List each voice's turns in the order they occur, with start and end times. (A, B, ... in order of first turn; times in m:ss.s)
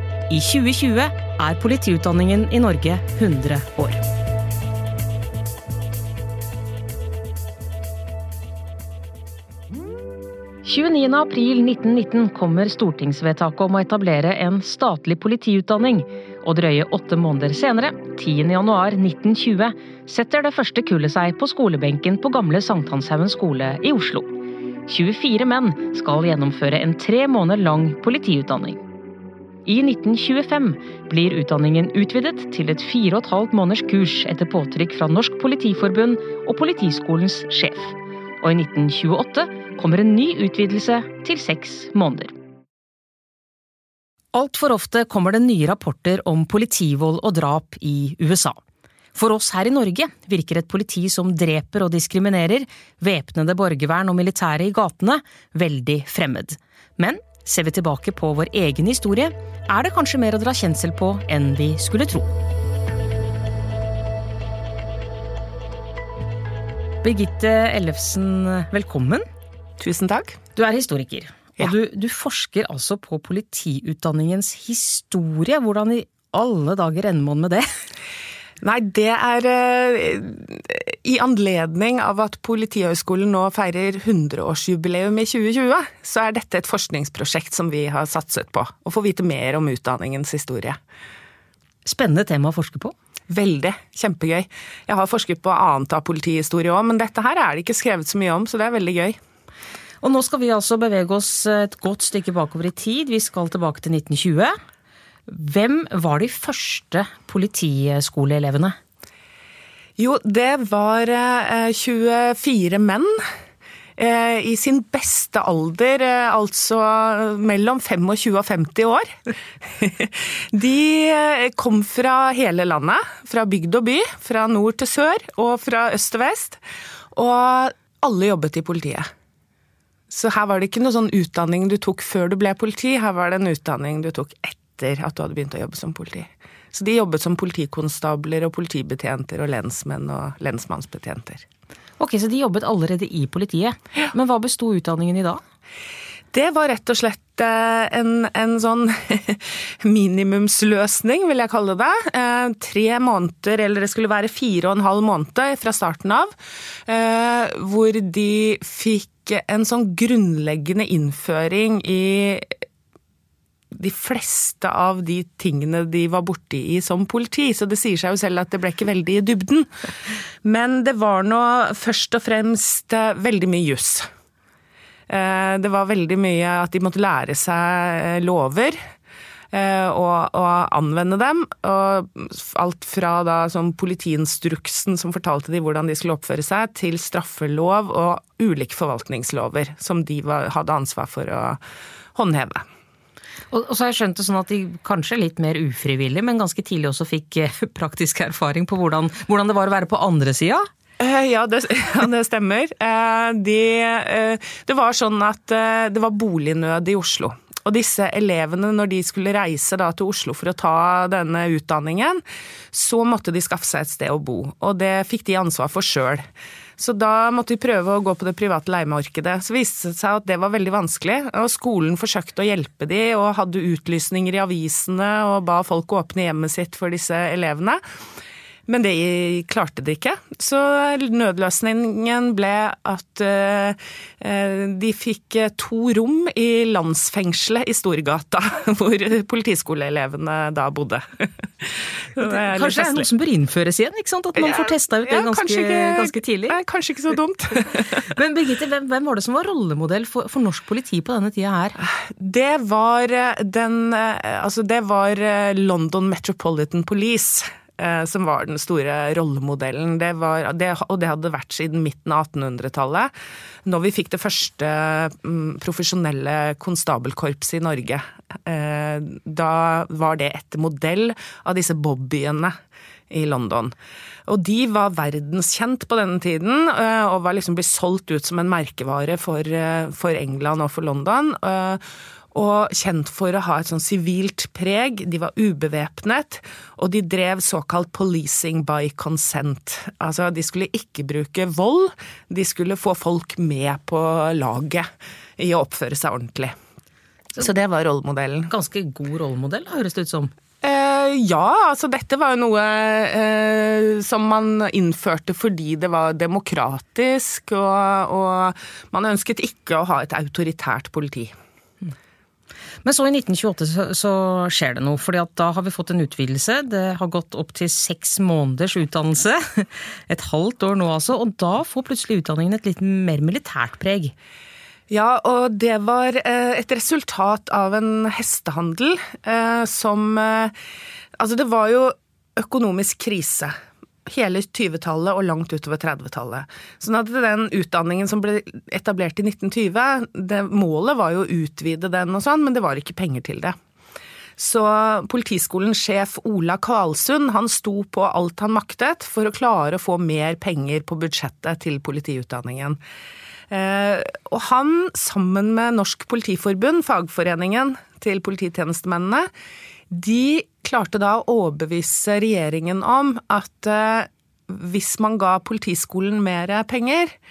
0:00.3-0:04.0 A
0:10.6-0:24.3 A
0:24.9-0:28.8 A
0:29.6-0:42.3 A
0:44.3-0:48.6 A
0:49.1-1:02.3 A
1:07.0-1:09.2 A
1:09.8-1:10.4 B
1:10.5-1:17.6 A
1:18.6-1:30.8 B
1:31.8-1:32.9 A
1:33.3-1:39.2 B
1:40.0-1:44.5 A
1:45.3-1:48.8 A
1:50.0-1:53.2 B
1:54.0-2:06.6 B
2:07.1-2:09.0 B
2:10.1-2:21.4 B
2:22.0-2:25.4 A
2:26.3-2:36.3 B
2:36.8-2:42.6 B
2:43.7-2:54.1 B
2:55.1-2:58.8 B
2:59.5-3:11.6 B
3:12.1-3:12.6 B
3:13.5-3:20.7 A
3:21.0-3:36.2 B
3:36.8-3:47.8 B
3:48.7-4:03.1 B
4:02.2-4:06.6 A
4:04.4-4:08.0 B
4:07.7-4:11.8 A
4:11.8-4:23.1 B
4:23.6-4:32.5 B
4:33.1-4:33.8 B
4:34.3-4:56.5 B
4:57.4-4:58.5 B
4:58.5-5:00.3 A
5:00.6-5:11.3 B
5:12.8-5:24.1 A
5:24.9-5:30.5 B
5:31.2-5:33.5 B
5:34.0-5:43.6 B
5:44.4-5:52.8 B
5:53.5-5:59.3 B
5:59.9-6:07.1 B